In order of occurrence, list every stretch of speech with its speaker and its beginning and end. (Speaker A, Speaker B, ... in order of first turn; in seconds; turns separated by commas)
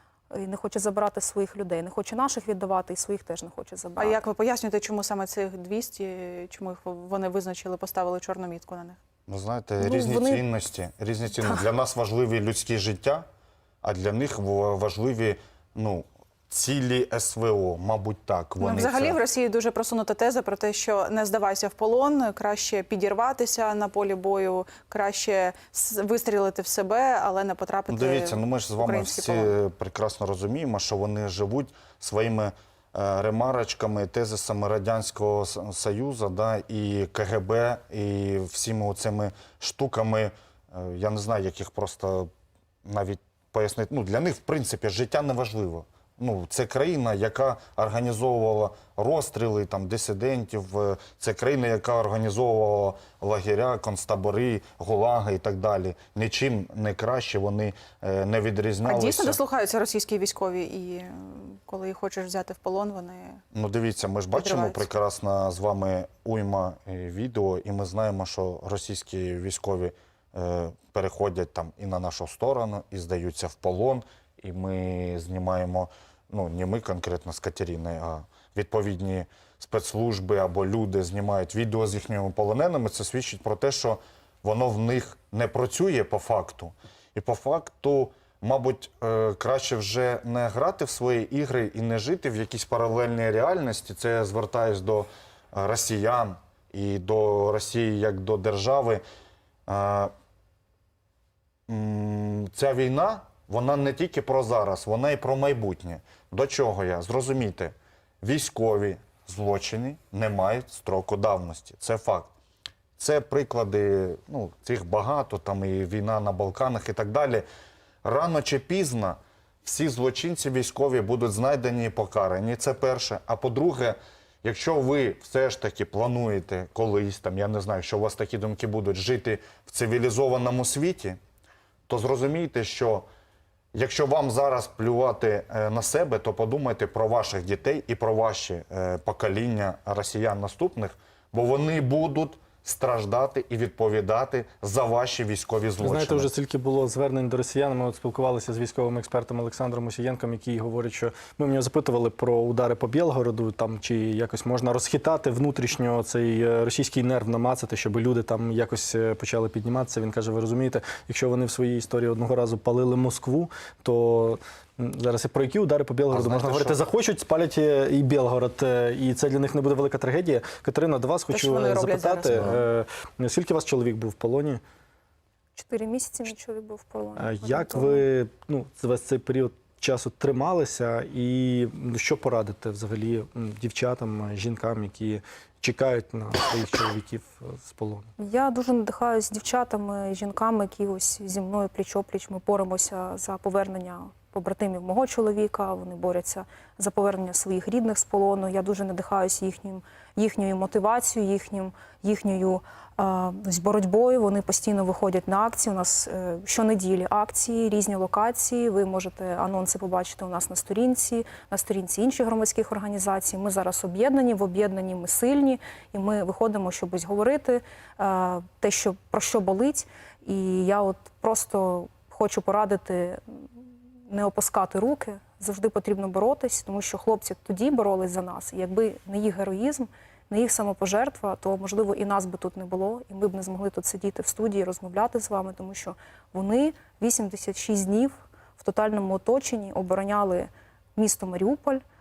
Speaker A: 0.3-4.2, Speaker B: 4.0-9.0, Speaker C: 9.3-13.2, Speaker A: 9.8-10.4, Speaker C: 13.8-19.2, Speaker B: 18.6-29.5, Speaker C: 27.9-42.3, Speaker C: 42.8-59.4, Speaker B: 58.8-63.4, Speaker C: 63.5-99.0, Speaker B: 64.3-64.8, Speaker C: 99.7-100.1, Speaker C: 101.7-112.3, Speaker C: 113.0-117.5, Speaker C: 118.0-131.2, Speaker C: 131.9-133.1, Speaker C: 133.7-146.3, Speaker D: 145.8-174.6, Speaker C: 166.1-166.9, Speaker B: 171.3-172.6, Speaker A: 175.6-178.1, Speaker D: 177.2-188.1, Speaker A: 188.2-223.2, Speaker A: 224.1-241.8